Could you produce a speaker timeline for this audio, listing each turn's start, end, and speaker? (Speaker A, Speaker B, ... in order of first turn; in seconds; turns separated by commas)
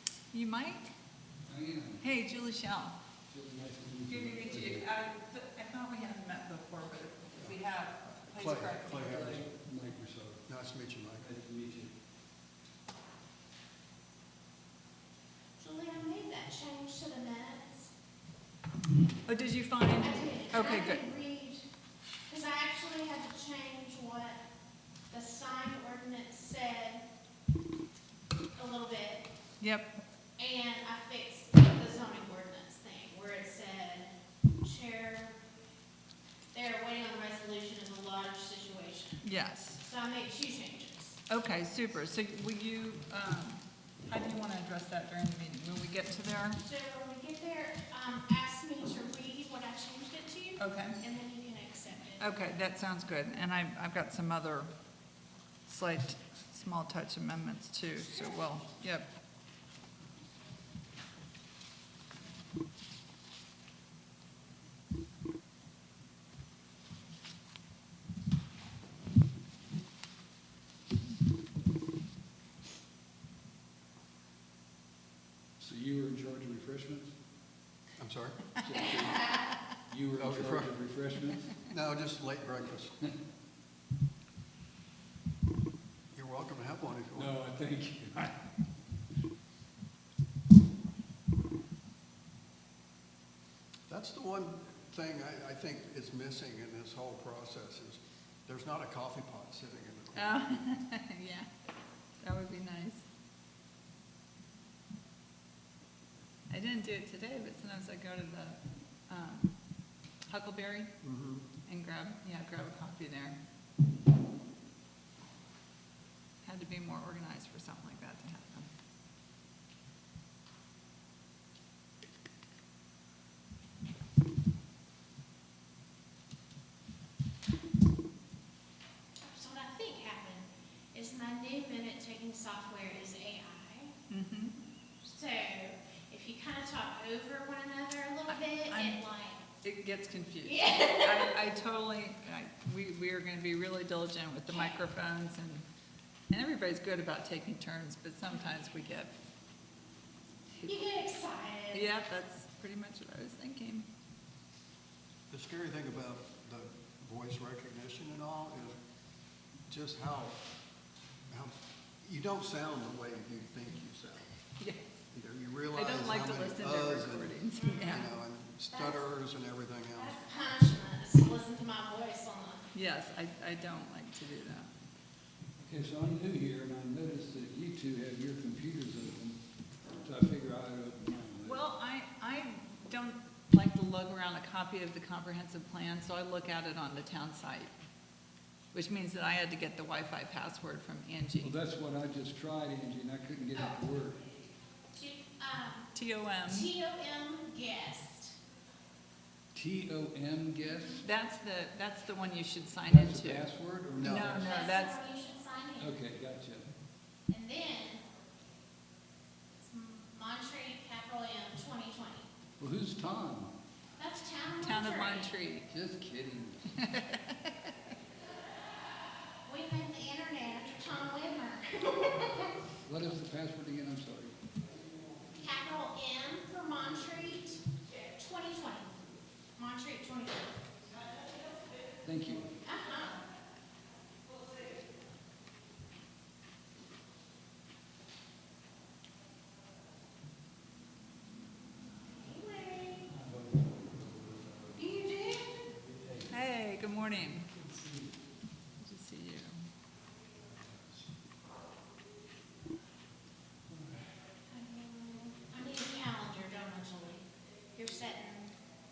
Speaker A: 0.3-0.9, Speaker B: 1.5-2.0, Speaker A: 2.0-3.0, Speaker B: 3.3-4.9, Speaker A: 4.1-9.4, Speaker C: 8.3-9.4, Speaker B: 9.1-10.4, Speaker C: 10.5-11.2, Speaker B: 11.2-11.9, Speaker D: 15.6-17.9, Speaker A: 19.3-21.0, Speaker D: 20.0-21.6, Speaker D: 22.3-24.4, Speaker D: 25.1-27.1, Speaker D: 28.6-29.3, Speaker A: 29.6-29.9, Speaker D: 30.4-35.4, Speaker D: 36.5-39.2, Speaker A: 39.2-39.8, Speaker D: 39.8-41.2, Speaker A: 41.3-46.6, Speaker D: 46.6-52.3, Speaker A: 50.6-51.0, Speaker A: 52.2-54.7, Speaker A: 55.7-59.1, Speaker B: 75.6-77.1, Speaker C: 78.0-78.5, Speaker B: 78.6-81.5, Speaker C: 80.2-80.7, Speaker C: 81.6-83.0, Speaker C: 86.1-87.3, Speaker B: 87.2-88.3, Speaker C: 93.9-100.7, Speaker A: 100.2-101.5, Speaker A: 102.2-103.0, Speaker A: 106.5-109.6, Speaker A: 110.3-110.9, Speaker C: 111.0-111.5, Speaker A: 111.7-113.4, Speaker A: 116.4-118.7, Speaker D: 129.2-133.9, Speaker A: 134.1-134.5, Speaker D: 135.0-139.4, Speaker A: 138.3-139.0, Speaker A: 139.6-145.7, Speaker D: 140.4-141.4, Speaker D: 144.5-144.8, Speaker A: 146.3-149.1, Speaker A: 150.6-150.9, Speaker D: 150.6-151.9, Speaker A: 151.7-153.9, Speaker C: 155.3-158.8, Speaker C: 159.7-160.4, Speaker C: 161.3-164.3, Speaker C: 165.1-170.2, Speaker A: 165.7-168.1, Speaker D: 168.7-169.0, Speaker D: 169.9-172.7, Speaker A: 172.7-174.7, Speaker B: 175.6-179.4, Speaker B: 180.0-181.7, Speaker A: 181.4-187.7, Speaker A: 188.7-191.5, Speaker B: 191.4-194.2, Speaker D: 194.9-195.9, Speaker A: 195.9-196.7, Speaker D: 196.4-198.4, Speaker B: 199.5-201.0, Speaker A: 201.0-203.5, Speaker B: 202.9-204.6, Speaker C: 204.0-204.3, Speaker A: 204.0-205.0, Speaker D: 204.3-205.9, Speaker B: 205.8-206.7, Speaker D: 207.3-208.0, Speaker D: 209.6-212.3, Speaker B: 212.6-213.5, Speaker D: 214.0-215.3, Speaker A: 214.6-215.7, Speaker B: 215.7-216.6, Speaker A: 216.8-217.7, Speaker D: 219.4-222.6, Speaker B: 222.8-224.3, Speaker D: 225.4-228.9, Speaker D: 229.6-230.6, Speaker B: 232.0-232.5, Speaker D: 232.6-233.2, Speaker D: 242.2-243.1, Speaker B: 243.1-244.9, Speaker D: 244.8-245.7, Speaker B: 245.8-246.3, Speaker A: 246.3-247.5, Speaker B: 247.5-248.2, Speaker A: 248.8-249.5, Speaker B: 250.4-251.0, Speaker B: 253.7-254.1, Speaker D: 254.5-258.6